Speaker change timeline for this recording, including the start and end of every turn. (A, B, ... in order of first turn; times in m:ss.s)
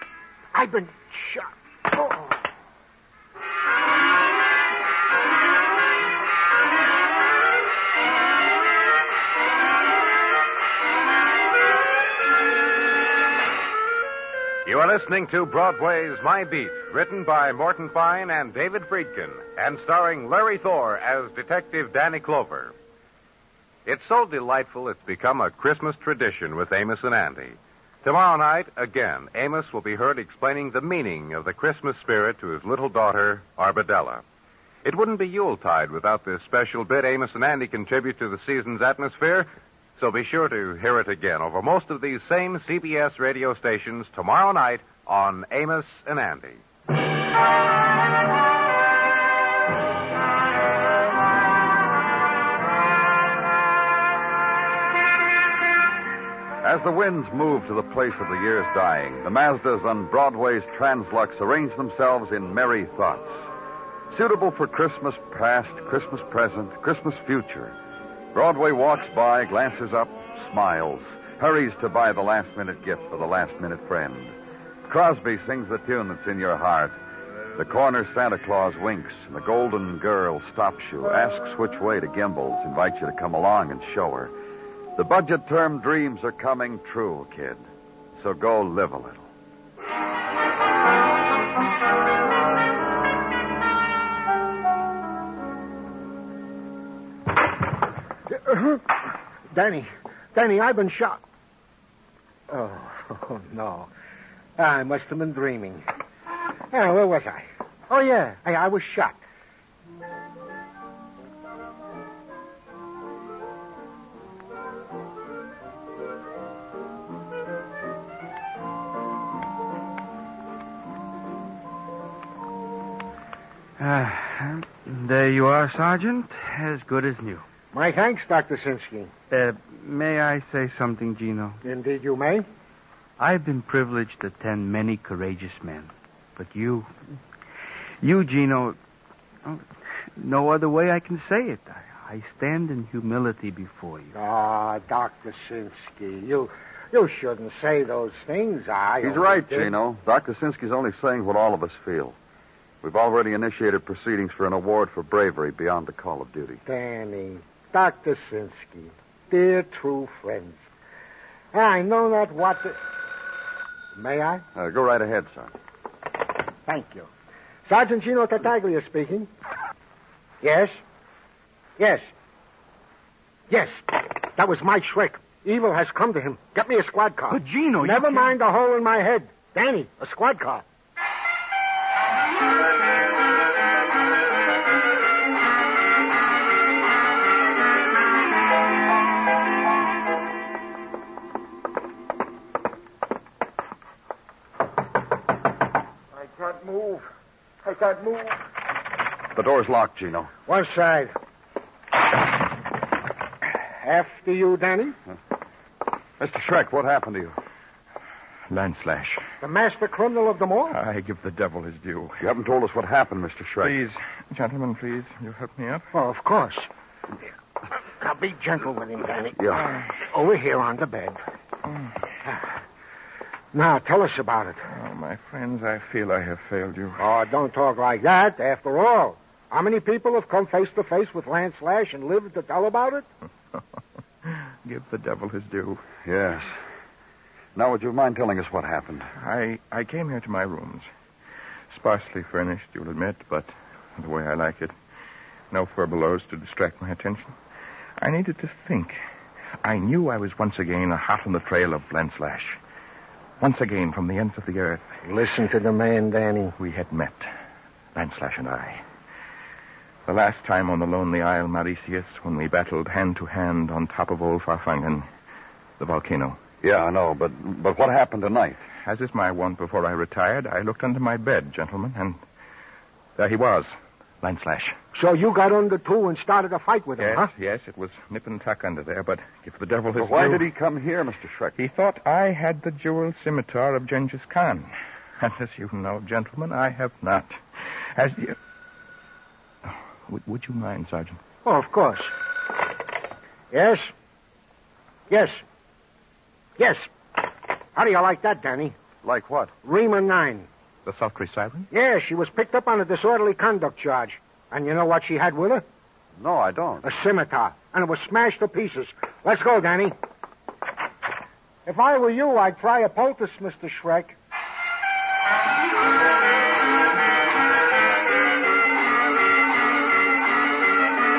0:00.5-0:02.3 A
0:14.6-0:22.7 B
0:23.8-0:34.2 B
0:34.8-0:46.6 B
0:56.6-1:03.4 C
1:04.1-1:07.7 C
1:08.3-1:14.3 C
1:14.9-1:17.0 C
1:17.5-1:24.3 C
1:25.0-1:27.7 C
1:28.2-1:29.3 C
1:38.3-1:41.2 A
1:42.5-1:43.9 A
1:44.6-1:45.8 A
1:46.7-1:49.2 A
2:03.8-2:07.4 D
2:07.7-2:09.1 A
2:09.3-2:11.6 D
2:11.6-2:12.5 A
2:13.2-2:16.9 D
2:18.0-2:18.8 D
2:20.2-2:24.1 D
2:24.1-2:29.8 A
2:29.0-2:32.2 C
2:32.8-2:36.6 C
2:36.7-2:40.6 A
2:41.5-2:42.8 A
2:44.0-2:44.4 A
2:44.5-2:45.5 C
2:46.6-2:47.1 A
2:47.7-2:49.3 A
2:50.4-2:50.8 A
2:51.8-2:52.1 A
2:53.5-3:00.6 A
2:57.3-2:58.4 D
3:16.2-3:17.0 A
3:17.6-3:18.4 A
3:19.3-3:20.3 C
3:20.5-3:21.1 A
3:23.8-3:25.0 A
3:26.2-3:27.3 C
3:28.5-3:29.2 E
3:29.4-3:30.8 A
3:30.7-3:32.2 E
3:32.2-3:33.8 C
3:33.6-3:35.9 E
3:35.9-3:36.7 A
3:38.0-3:41.2 A
3:39.4-3:39.6 C
3:43.5-3:44.6 A
3:44.7-3:47.0 E
3:47.0-3:53.1 A
3:54.2-3:55.8 E
3:56.0-3:56.5 C
3:57.5-3:59.1 C
3:59.2-4:00.9 E
4:01.7-4:04.7 E
4:05.5-4:07.3 E
4:08.0-4:09.0 E
4:09.6-4:12.6 E
4:13.4-4:14.9 E
4:15.0-4:16.6 A
4:16.6-4:17.3 E
4:17.9-4:18.8 E
4:20.0-4:25.1 E
4:25.8-4:26.4 E
4:26.6-4:28.6 C
4:28.8-4:32.2 E
4:33.2-4:34.8 E
4:34.9-4:37.3 A
4:37.0-4:40.5 E
4:40.0-4:41.6 C
4:41.6-4:48.4 E
4:49.6-4:51.2 E
4:51.4-4:52.1 A
4:53.5-4:53.9 A
4:55.1-4:55.4 A
4:56.6-4:57.2 A
4:57.7-4:58.8 A
4:59.0-4:59.5 C
4:59.6-5:00.5 A
5:00.8-5:01.7 E
5:01.7-5:05.6 A
5:06.2-5:06.9 C
5:06.8-5:09.9 A
5:11.6-5:14.2 A